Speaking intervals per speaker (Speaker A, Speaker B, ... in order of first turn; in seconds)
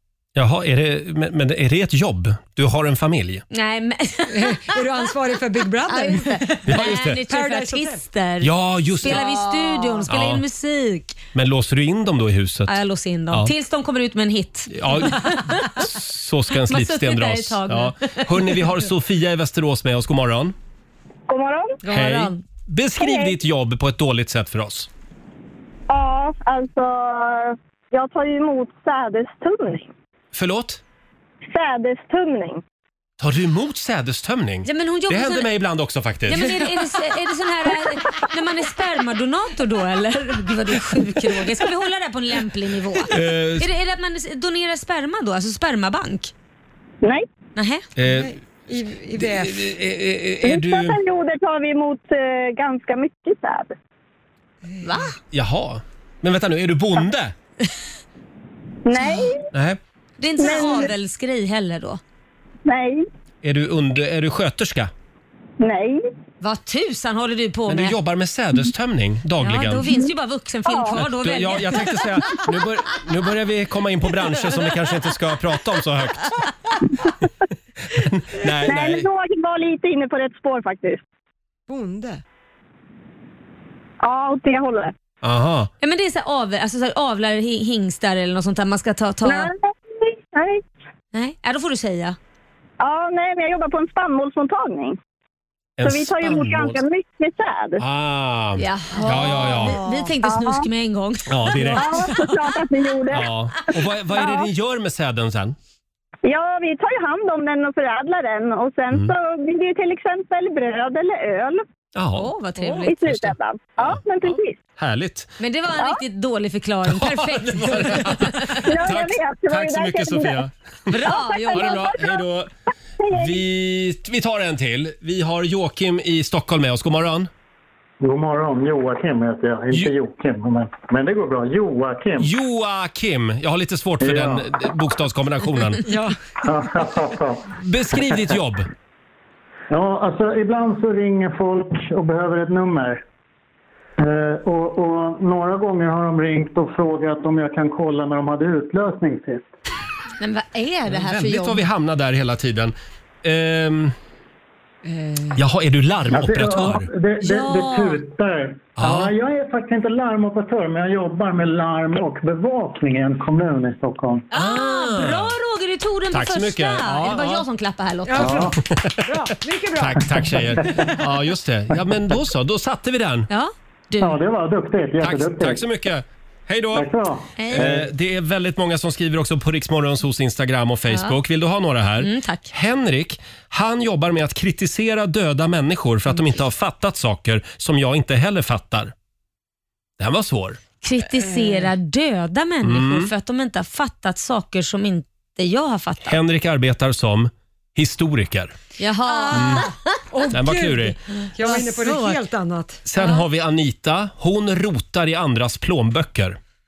Speaker A: 0.4-3.4, 6.7-7.2, 8.4-9.4, 10.1-10.4, 11.3-12.8, 14.7-20.6, 21.9-24.9, 30.3-30.8, 33.2-36.6, 43.1-43.7, 48.0-48.4, 49.2-51.0, 55.3-57.4, 59.5-59.8, 63.4-64.9, 67.7-69.9, 70.9-76.4, 77.9-79.1, 85.2-85.7, 95.8-96.8, 97.8-99.8, 101.3-102.2, 103.1-105.6, 112.0-112.3, 113.0-115.3, 116.8-122.5, 123.1-127.3, 132.2-135.9, 137.6-138.7, 150.9-153.9, 155.4-156.9, 158.8-159.1, 164.3-165.3, 166.1-167.5, 168.6-169.1, 169.8-173.3, 175.0-176.9, 177.5-188.9, 190.0-190.6, 192.6-193.1, 196.1-198.6, 199.3-199.7, 200.3-201.0, 202.9-206.4
Speaker B: 3.5-4.8, 5.9-11.2, 12.7-15.9, 16.6-18.7, 21.8-22.4, 34.6-35.5, 36.3-46.3, 47.6-47.8, 54.8-55.1, 60.2-62.0, 66.4-68.0, 69.4-71.9, 85.8-89.5, 91.1-92.2, 98.6-102.3, 112.2-113.2, 115.4-118.7, 120.9-121.9, 150.2-151.7, 157.2-158.0, 164.3-168.5, 173.3-174.2, 177.4-177.7, 180.9-181.2, 182.0-182.5, 190.8-196.2, 198.8-199.7, 201.4-202.2, 203.0-203.2
Speaker C: 4.3-8.0, 48.1-49.6, 81.7-82.2, 135.9-136.2, 154.9-155.4, 168.1-170.4, 191.2-191.7, 200.1-202.8
Speaker D: 21.3-21.8, 23.0-23.4, 25.9-29.9, 31.5-32.6, 50.4-53.7, 58.9-59.4, 60.4-60.9, 62.7-63.0, 65.6-66.0, 70.7-71.0, 78.6-81.0, 84.0-84.9, 89.2-90.6, 92.8-95.0, 95.8-97.8, 100.2-100.7, 101.8-103.3, 104.1-104.5, 106.2-111.7, 112.6-114.6, 118.6-120.4, 121.0-122.2, 123.0-123.4
Speaker E: 128.0-132.3, 134.0-134.5, 136.4-137.4, 137.9-138.4, 139.7-143.0, 144.0-149.5, 156.1-164.3, 168.2-168.6, 170.2-170.9, 174.0-175.6, 176.7-177.9